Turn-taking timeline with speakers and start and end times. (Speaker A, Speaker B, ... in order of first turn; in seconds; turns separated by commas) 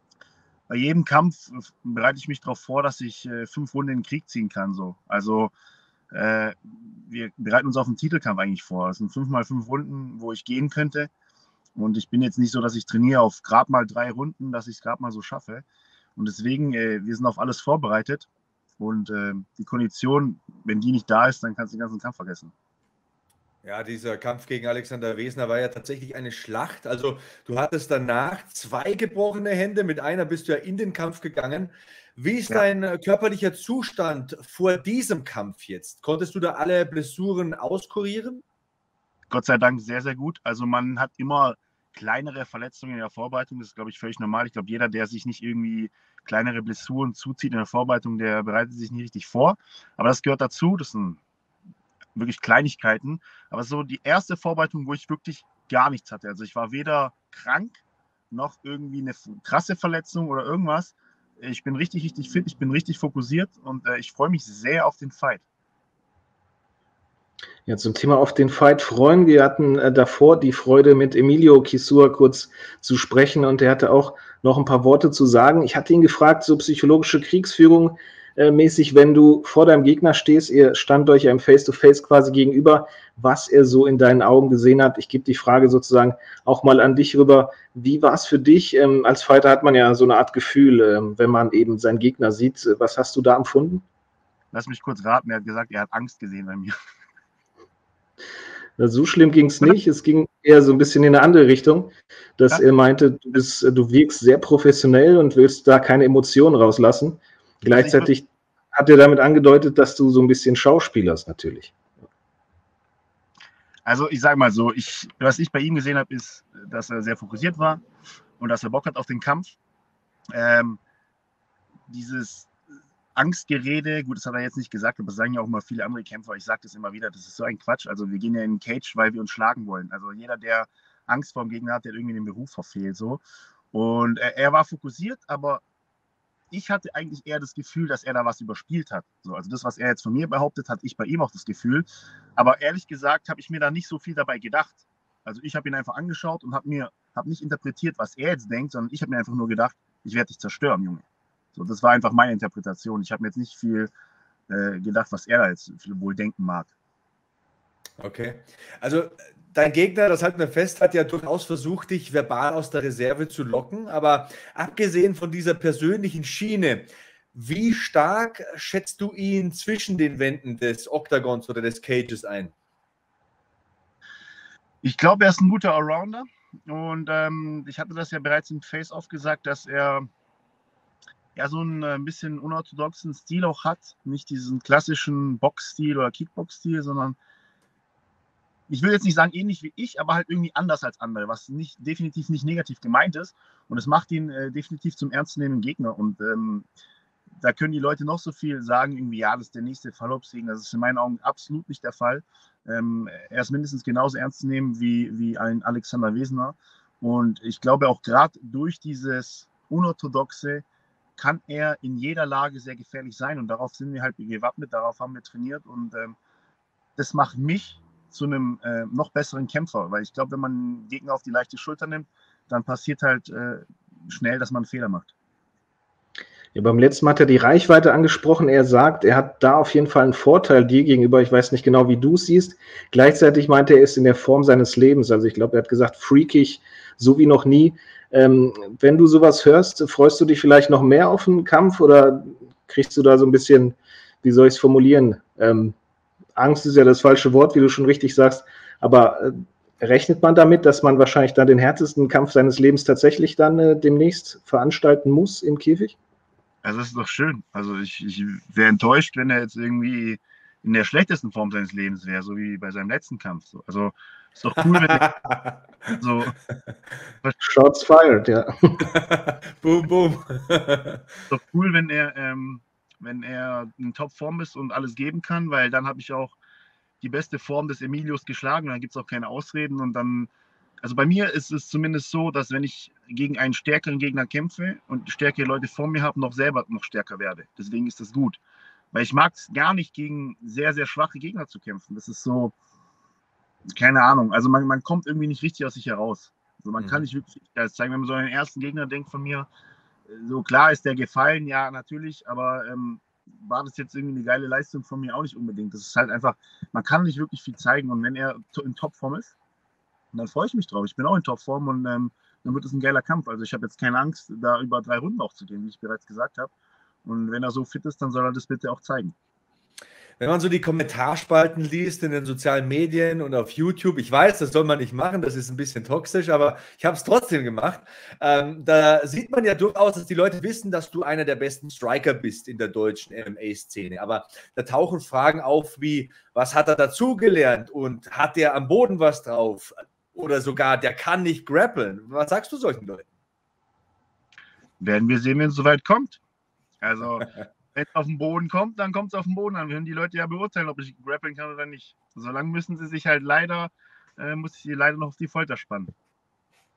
Speaker A: 0.7-5.5, Speaker A: 6.1-11.1, Speaker A: 11.8-15.6, Speaker A: 16.1-18.3, Speaker A: 18.8-22.5, Speaker B: 23.6-38.4, Speaker A: 39.3-51.2, Speaker A: 52.1-65.4, Speaker C: 67.7-93.8, Speaker A: 94.5-96.7, Speaker C: 98.8-111.7, Speaker A: 107.7-108.1, Speaker A: 113.8-117.8, Speaker A: 118.4-119.6, Speaker A: 120.3-120.8, Speaker A: 121.9-122.5, Speaker A: 123.1-133.2, Speaker A: 133.7-135.6, Speaker A: 136.5-153.9, Speaker A: 154.5-156.7, Speaker B: 158.0-172.5, Speaker A: 174.8-180.1, Speaker A: 181.3-187.2, Speaker A: 188.7-196.7, Speaker A: 197.4-210.6, Speaker A: 211.2-216.2, Speaker A: 217.0-225.1, Speaker C: 226.5-245.7, Speaker C: 246.3-255.9, Speaker A: 256.6-265.1, Speaker B: 264.6-265.9, Speaker A: 266.0-266.3, Speaker C: 267.4-268.7, Speaker B: 268.8-271.0, Speaker A: 271.3-276.4, Speaker A: 277.0-280.3, Speaker A: 280.8-288.4, Speaker A: 288.9-292.5, Speaker A: 293.7-299.5, Speaker B: 296.8-297.0, Speaker A: 300.1-309.3, Speaker A: 310.1-316.5, Speaker A: 317.0-319.1, Speaker B: 320.2-343.1, Speaker A: 344.8-346.2, Speaker A: 346.8-355.9